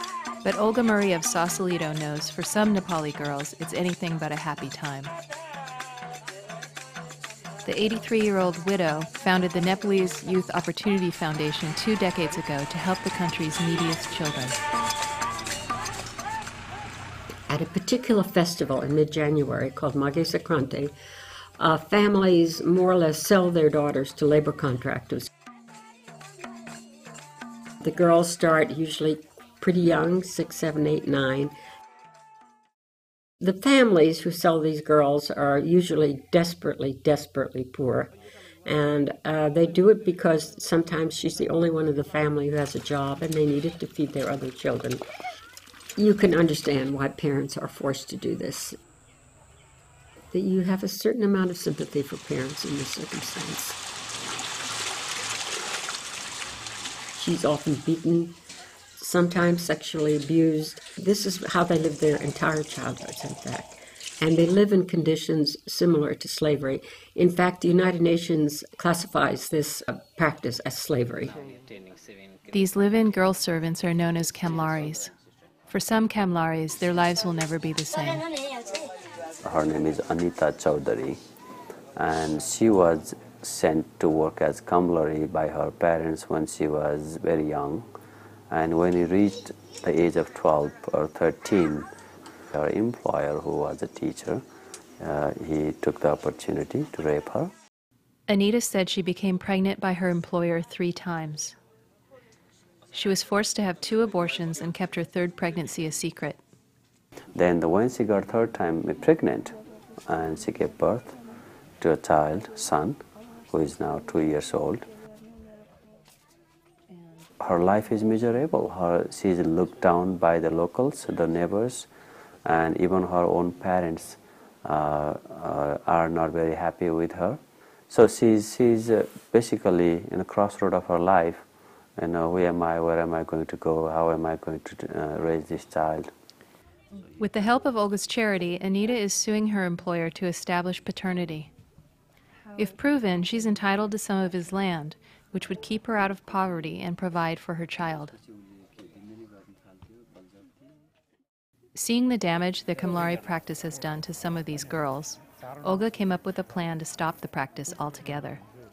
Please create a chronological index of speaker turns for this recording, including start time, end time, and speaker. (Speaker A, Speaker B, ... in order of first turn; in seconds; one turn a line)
Speaker A: 0.4-5.1
Speaker A: 7.7-14.6
Speaker B: 17.5-20.9
Speaker B: 21.6-25.3
Speaker B: 27.8-31.5
Speaker B: 33.4-38.1
Speaker B: 38.6-45.0
Speaker B: 46.0-48.7
Speaker B: 50.3-53.8
Speaker B: 57.1-58.4
Speaker B: 59.0-71.3
Speaker A: 72.5-75.1
Speaker A: 75.7-78.2
Speaker C: 79.4-81.2
Speaker C: 82.0-87.9
Speaker C: 88.5-91.9
Speaker C: 92.5-94.4
Speaker C: 95.0-97.5
Speaker A: 98.3-101.5
Speaker A: 102.9-106.4
Speaker C: 107.3-109.6
Speaker C: 110.1-111.2
Speaker C: 111.8-113.0
Speaker C: 113.5-114.8
Speaker C: 117.4-121.9
Speaker C: 122.4-127.4
Speaker C: 127.9-131.4
Speaker C: 132.0-136.1
Speaker A: 137.2-141.5
Speaker A: 142.6-148.1
Speaker A: 151.8-158.4